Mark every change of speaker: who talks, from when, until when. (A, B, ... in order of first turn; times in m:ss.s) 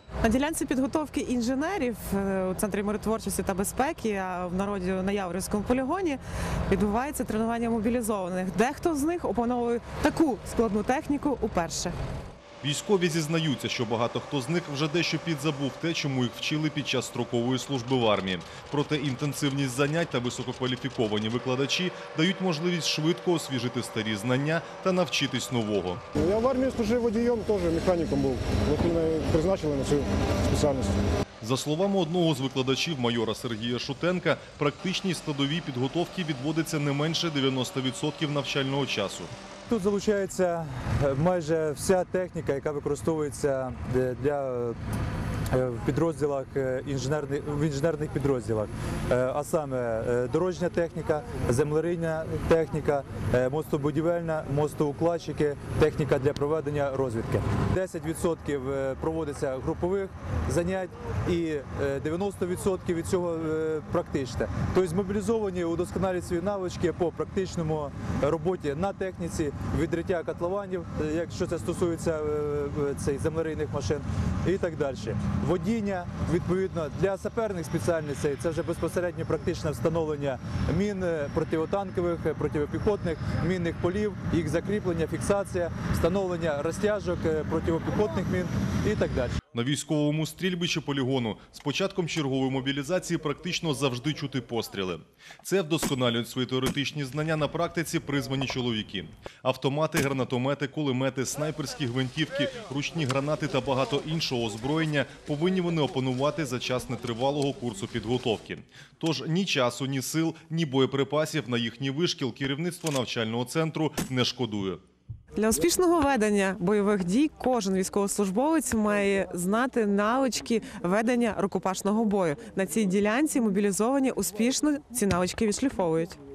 0:00.3-0:06.2 A
0:06.7-0:11.9 A
0:12.6-0:26.0 B
0:26.2-0:31.0 C
0:31.4-0:39.3 B
0:39.7-0:44.8 D
0:45.5-1:29.4 D
1:29.5-1:54.8 B
1:55.4-2:06.2 A